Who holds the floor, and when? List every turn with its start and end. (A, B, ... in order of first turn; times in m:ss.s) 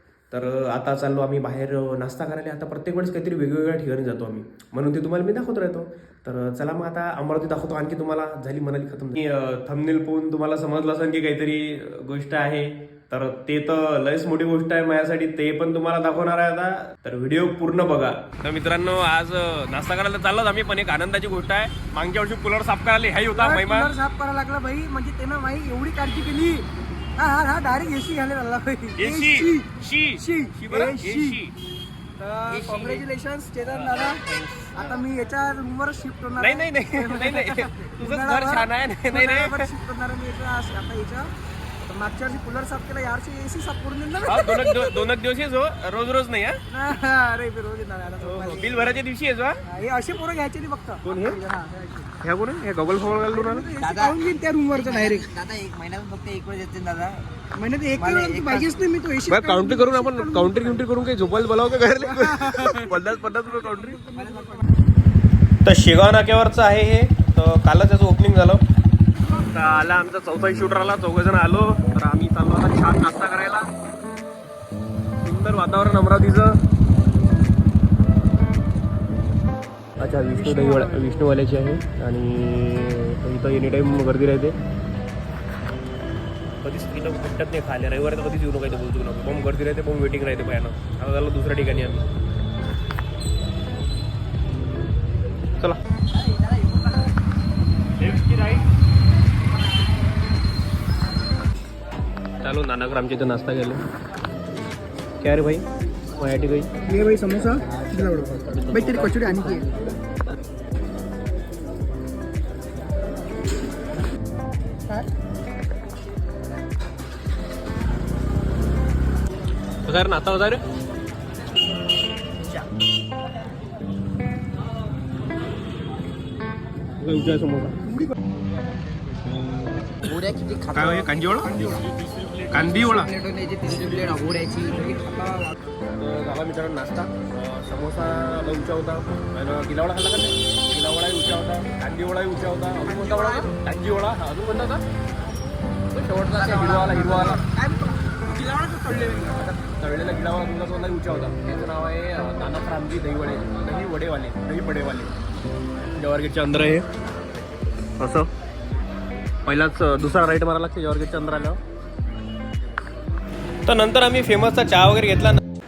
0:00.3-0:23.9 A
0:23.3-0:31.4 B
0:29.0-0:31.6 A
0:32.2-0:41.3 B
0:32.5-0:33.0 A
0:33.6-0:35.0 A
0:36.4-0:39.7 A
0:41.9-0:45.0 B
0:44.3-0:46.6 A
0:46.7-0:49.0 B
0:48.2-0:49.6 A
0:49.7-0:52.1 B
0:51.0-0:51.4 A
0:52.2-0:53.7 A
0:53.3-0:55.3 B
0:53.8-0:54.2 C
0:54.7-0:57.3 C
0:57.6-1:00.8 B
0:58.0-0:58.7 C
0:59.3-1:04.0 A
1:02.0-1:03.0 B
1:03.6-1:04.6 B
1:04.1-1:04.6 C
1:05.6-1:08.6 A
1:09.5-1:13.7 A
1:15.2-1:16.6 A
1:20.0-1:24.6 A
1:20.3-1:21.2 B
1:26.6-1:32.0 A
1:36.2-1:36.9 C
1:38.0-1:38.7 A
1:42.4-1:43.8 A
1:45.2-1:46.7 A
1:46.8-1:49.7 B
1:48.2-1:49.6 C
1:59.9-2:00.6 A
2:07.0-2:08.0 A
2:10.0-2:15.2 C
2:10.7-2:11.8 A
2:12.5-2:13.1 A
2:15.2-2:15.5 B
2:16.0-2:24.8 A
2:22.8-2:23.5 B
2:25.9-2:27.4 A
2:26.4-2:27.4 C
2:27.4-2:29.2 B
2:28.6-2:35.1 A
2:36.0-2:36.9 A
2:38.0-2:38.3 A
2:39.5-2:41.6 A
2:43.7-2:45.4 A